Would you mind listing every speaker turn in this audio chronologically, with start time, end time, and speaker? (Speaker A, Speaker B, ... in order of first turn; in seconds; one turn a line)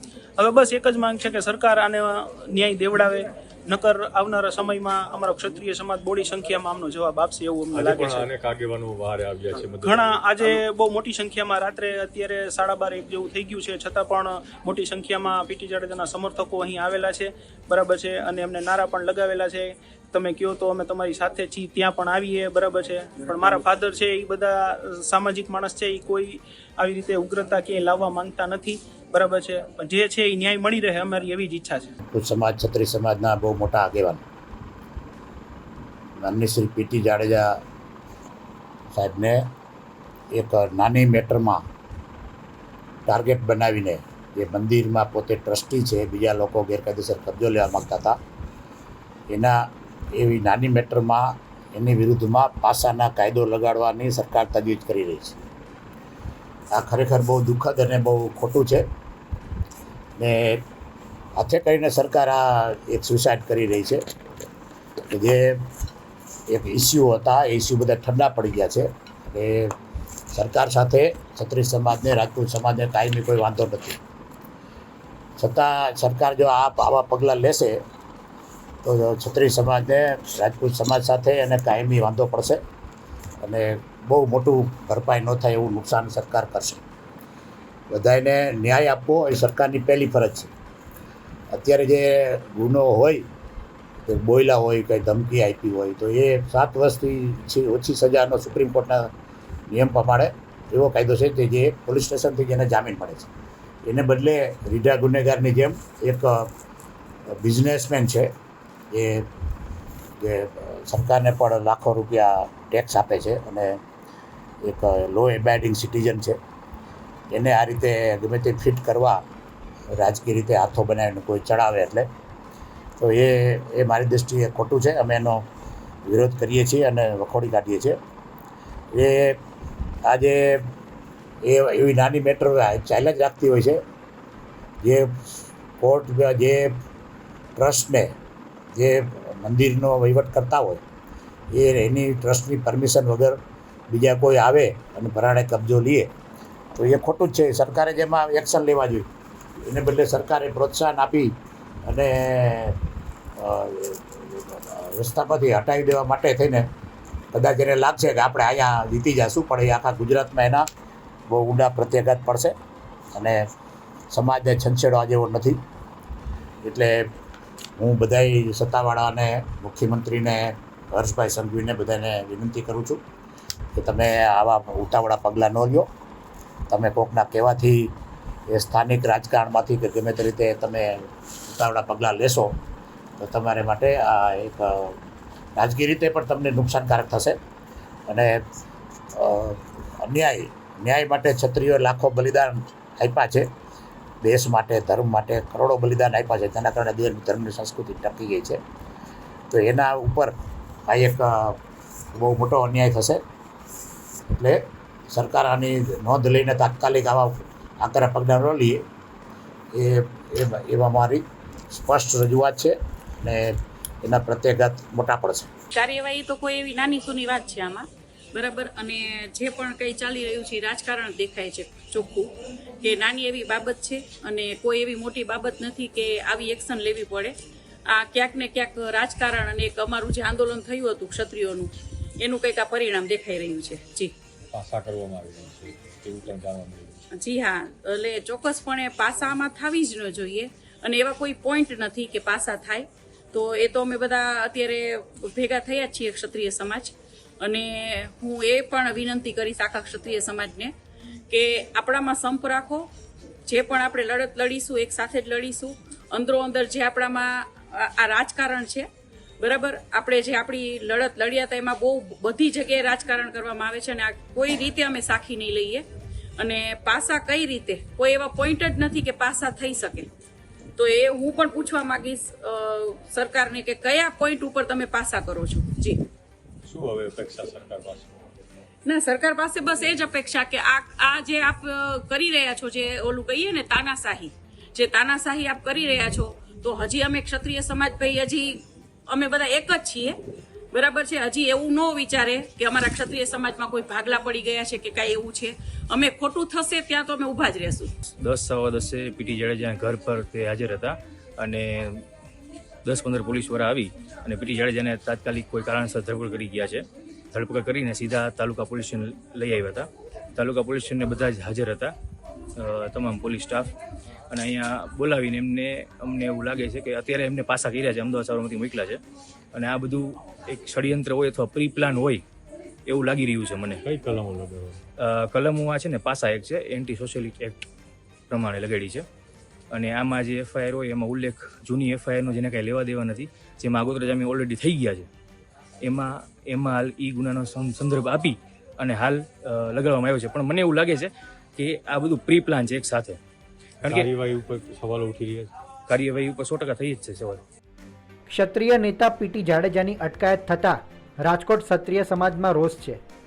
Speaker A: 0.4-8.3
Speaker B: 7.7-10.3
Speaker A: 9.8-31.9
Speaker C: 32.1-34.2
Speaker C: 36.2-37.6
Speaker C: 38.9-39.4
Speaker C: 40.3-41.6
Speaker C: 43.0-48.2
Speaker C: 50.1-55.4
Speaker C: 56.7-58.9
Speaker C: 60.2-60.6
Speaker C: 61.4-64.0
Speaker C: 65.1-65.6
Speaker C: 66.5-69.7
Speaker C: 70.3-74.0
Speaker C: 75.4-77.8
Speaker C: 78.8-82.6
Speaker C: 83.4-86.8
Speaker C: 87.9-90.5
Speaker C: 91.5-93.3
Speaker C: 94.0-99.1
Speaker C: 99.7-103.3
Speaker C: 103.8-106.5
Speaker C: 107.4-108.3
Speaker C: 108.9-109.3
Speaker C: 110.2-113.8
Speaker C: 114.6-116.4
Speaker C: 117.3-119.2
Speaker C: 119.9-122.1
Speaker C: 123.0-125.4
Speaker C: 126.0-128.0
Speaker C: 128.9-129.4
Speaker C: 130.0-130.7
Speaker C: 131.4-133.8
Speaker C: 134.8-136.8
Speaker C: 137.6-138.1
Speaker C: 138.7-140.8
Speaker C: 141.5-143.4
Speaker C: 143.9-146.1
Speaker C: 146.7-149.1
Speaker C: 149.6-152.8
Speaker C: 153.4-156.7
Speaker C: 157.3-160.6
Speaker C: 161.3-162.5
Speaker C: 163.1-163.4
Speaker C: 164.1-165.6
Speaker C: 166.6-167.1
Speaker C: 167.8-173.0
Speaker C: 173.7-175.9
Speaker C: 176.7-177.9
Speaker C: 178.5-182.6
Speaker C: 183.2-185.0
Speaker C: 185.6-187.4
Speaker C: 188.1-188.4
Speaker C: 189.2-193.5
Speaker C: 194.2-198.6
Speaker C: 199.5-200.3
Speaker C: 200.9-201.6
Speaker C: 202.1-203.2
Speaker C: 204.3-204.6
Speaker C: 205.1-208.8
Speaker C: 209.7-215.5
Speaker D: 215.7-227.3
Speaker D: 227.9-234.1
Speaker B: 234.5-237.0
Speaker D: 237.2-250.7
Speaker D: 251.3-252.9
Speaker D: 253.5-258.9
Speaker D: 259.4-265.8
Speaker D: 266.4-270.1
Speaker D: 270.8-276.0
Speaker B: 276.6-278.2
Speaker D: 278.9-290.2
Speaker D: 290.7-297.9
Speaker E: 298.2-302.0
Speaker E: 302.8-311.9
Speaker E: 312.6-313.7
Speaker E: 314.3-319.0
Speaker E: 319.5-322.2
Speaker E: 322.9-323.8
Speaker B: 323.8-324.8
Speaker E: 325.0-327.6
Speaker E: 328.3-329.1
Speaker E: 329.7-335.1
Speaker E: 335.8-343.2
Speaker E: 343.8-344.1
Speaker B: 343.8-345.5
Speaker E: 345.9-347.4
Speaker F: 348.3-353.0